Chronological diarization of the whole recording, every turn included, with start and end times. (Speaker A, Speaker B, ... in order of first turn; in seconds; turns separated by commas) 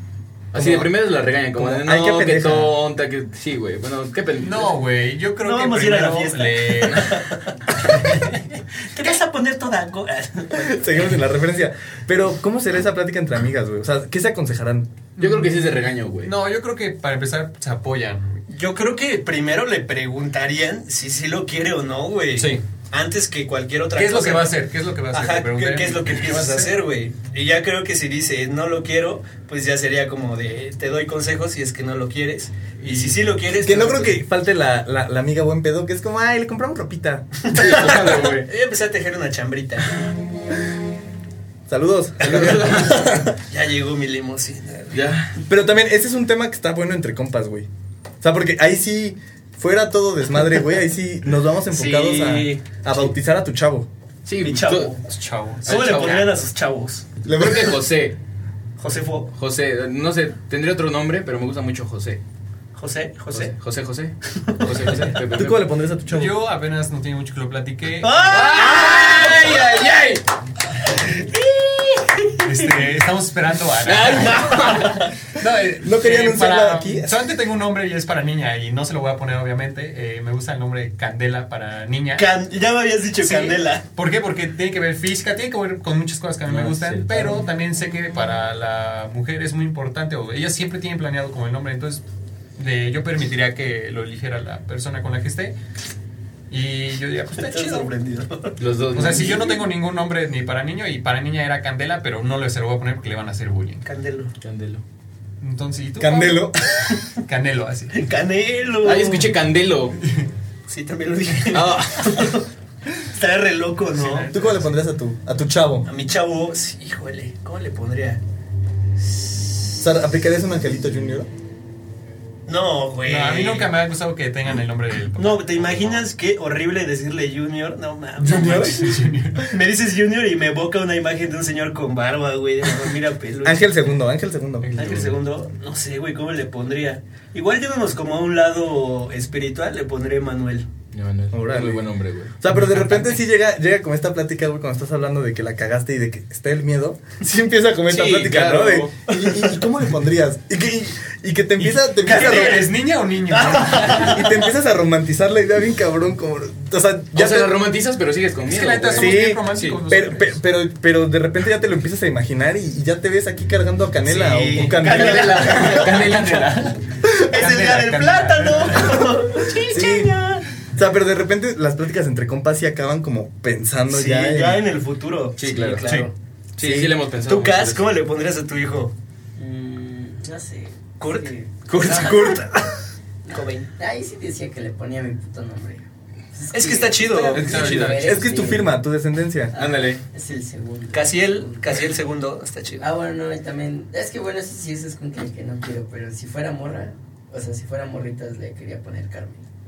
Speaker A: 0.5-4.8, Speaker B: 0.5-0.9, Speaker B: 1.6-2.8, Speaker C: 4.4-7.2, Speaker D: 5.4-8.3, Speaker C: 7.9-8.4, Speaker D: 8.8-11.1, Speaker B: 10.5-14.9, Speaker C: 15.2-15.7, Speaker A: 15.2-16.3, Speaker C: 16.2-18.4, Speaker D: 18.5-24.5, Speaker C: 22.4-22.6, Speaker C: 23.9-26.7, Speaker D: 25.1-34.2, Speaker C: 32.8-33.2, Speaker B: 33.6-37.9, Speaker D: 37.5-40.0, Speaker A: 37.5-38.5, Speaker B: 41.7-43.2, Speaker A: 42.2-43.2, Speaker D: 42.2-45.0, Speaker A: 44.9-45.4, Speaker B: 45.4-47.7, Speaker B: 48.2-53.9, Speaker D: 51.7-52.6, Speaker A: 54.2-55.0, Speaker D: 54.4-55.0, Speaker C: 55.0-56.3, Speaker A: 55.6-56.3, Speaker D: 55.6-57.0, Speaker B: 57.2-57.8, Speaker A: 57.3-58.2, Speaker D: 58.8-59.3, Speaker A: 59.4-62.2, Speaker D: 62.8-63.5, Speaker A: 63.3-65.6, Speaker B: 65.2-66.4, Speaker C: 66.1-68.2, Speaker D: 68.0-69.6, Speaker A: 68.3-70.2, Speaker A: 71.1-72.9, Speaker C: 72.4-82.3, Speaker A: 73.8-75.1, Speaker B: 75.8-77.3, Speaker D: 82.2-83.8, Speaker C: 83.2-92.0, Speaker A: 86.5-87.4, Speaker C: 92.6-95.6, Speaker C: 96.5-97.9, Speaker D: 97.3-98.6, Speaker A: 98.6-99.6, Speaker C: 98.9-103.8, Speaker D: 103.8-104.3, Speaker A: 104.4-104.8, Speaker C: 105.4-108.1, Speaker B: 106.0-106.6, Speaker D: 107.9-109.3, Speaker A: 108.8-110.0, Speaker D: 110.7-112.5, Speaker A: 111.5-112.4, Speaker D: 113.0-114.3, Speaker C: 113.9-114.7, Speaker B: 114.3-115.9, Speaker D: 115.8-118.2, Speaker B: 119.8-121.3, Speaker D: 122.5-123.7, Speaker C: 123.0-126.0, Speaker D: 125.2-128.9, Speaker B: 128.2-129.1, Speaker C: 128.2-129.5, Speaker D: 129.5-133.7, Speaker B: 133.4-134.9, Speaker C: 134.6-135.2, Speaker D: 134.8-140.7, Speaker A: 140.9-142.4, Speaker B: 141.3-152.7, Speaker A: 147.9-149.6, Speaker C: 151.6-154.2, Speaker D: 152.1-152.7, Speaker D: 153.3-154.5, Speaker B: 153.9-157.6, Speaker A: 157.1-159.8, Speaker C: 158.5-160.4, Speaker B: 158.9-165.6, Speaker D: 164.1-166.3, Speaker A: 164.7-166.8, Speaker C: 165.6-166.8, Speaker B: 167.0-167.3, Speaker D: 167.3-170.4, Speaker C: 167.3-169.4, Speaker B: 169.5-170.2, Speaker B: 170.8-174.6, Speaker D: 173.9-176.1, Speaker A: 175.4-175.8, Speaker A: 176.6-177.9, Speaker B: 176.6-176.9, Speaker D: 177.3-178.9, Speaker E: 179.4-182.2, Speaker D: 181.0-182.6, Speaker A: 181.7-182.4, Speaker E: 183.2-188.7, Speaker D: 183.3-183.7, Speaker D: 186.5-187.7, Speaker A: 187.3-188.3, Speaker C: 187.5-188.1, Speaker B: 188.0-189.5, Speaker E: 189.5-191.9, Speaker A: 189.6-190.0, Speaker D: 190.9-192.9, Speaker E: 192.8-199.4